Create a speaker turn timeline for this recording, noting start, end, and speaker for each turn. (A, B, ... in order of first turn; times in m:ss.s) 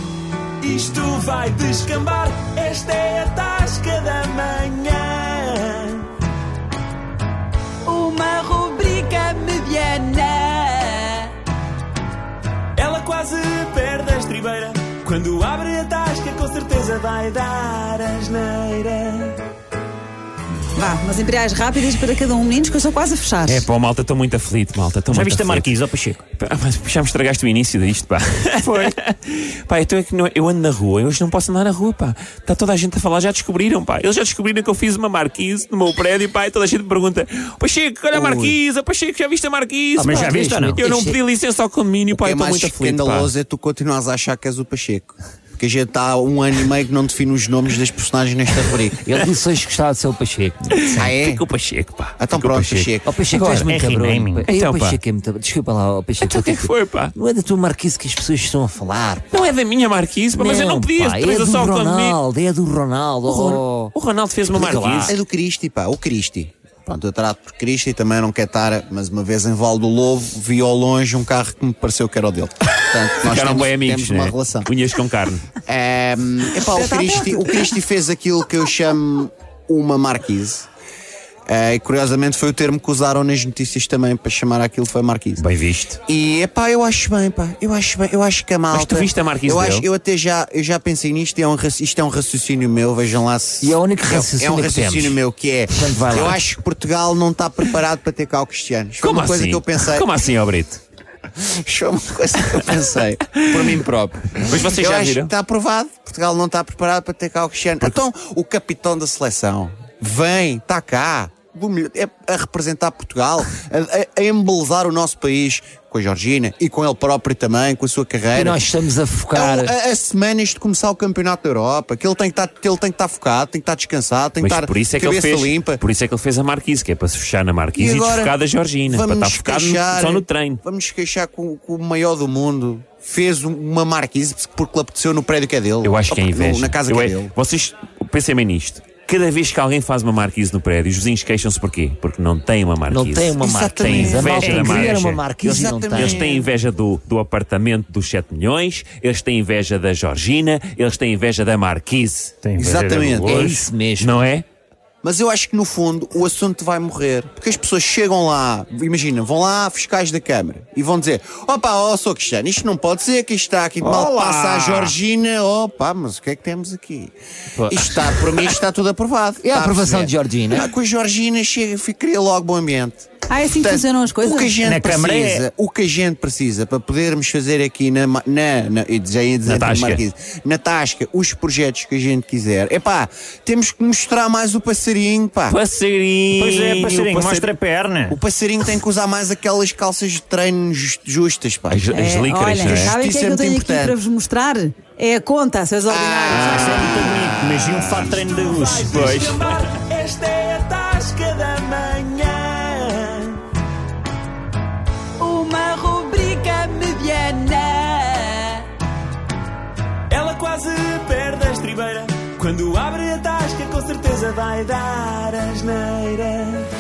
0:00.6-0:06.1 A
0:07.8-0:11.3 B
0:12.8-0:19.4 A
0:12.8-0:13.3 C
0:14.1-0:15.6 C
0:16.2-0:17.7 C
0:20.8-0:23.6 B
0:23.4-0:25.8 C
0:25.1-0:26.2 D
0:26.3-0:43.3 C
0:40.0-0:40.8 D
0:40.1-0:41.2 E
0:42.1-0:49.1 F
0:49.0-0:51.0 E
0:50.7-0:52.9 C
0:50.9-0:51.4 F
0:52.2-0:53.1 F
0:53.0-0:59.5 E
0:53.3-0:54.5 D
0:54.5-0:55.0 C
0:56.2-0:57.1 C
0:59.3-1:02.2 C
1:00.3-1:03.9 E
1:03.2-1:05.2 C
1:04.5-1:05.2 E
1:04.5-1:14.7 F
1:13.2-1:15.5 C
1:15.6-1:20.7 F
1:16.7-1:17.7 B
1:21.5-1:25.4 F
1:25.4-1:26.0 C
1:26.1-1:40.1 F
1:28.7-1:29.9 C
1:33.6-1:35.2 E
1:35.7-1:36.4 E
1:39.0-1:40.8 C
1:41.4-1:58.7 F
1:43.4-1:43.9 C
1:44.4-1:45.3 C
1:58.3-1:59.7 E
1:59.3-2:05.8 F
2:04.4-2:10.6 C
2:07.8-2:08.4 F
2:08.9-2:17.3 F
2:15.8-2:32.4 C
2:22.9-2:26.2 E
2:23.4-2:24.9 F
2:25.4-2:26.5 F
2:32.4-2:33.7 D
2:32.6-2:33.4 F
2:33.2-2:34.1 E
2:34.0-2:34.5 C
2:35.0-2:47.1 F
2:43.8-2:44.9 D
2:47.7-3:05.6 F
2:49.4-2:50.7 E
2:53.3-2:54.7 B
2:54.6-2:55.4 D
2:59.5-3:00.0 C
3:05.5-3:07.5 C
3:06.3-3:08.2 D
3:08.1-3:12.0 F
3:11.7-3:13.0 C
3:12.0-3:16.9 B
3:12.6-3:14.0 F
3:15.9-3:18.2 F
3:16.3-3:18.2 C
3:16.5-3:19.1 D
3:18.3-3:23.4 A
3:18.8-3:19.8 C
3:25.2-3:28.7 B
3:30.1-3:36.7 A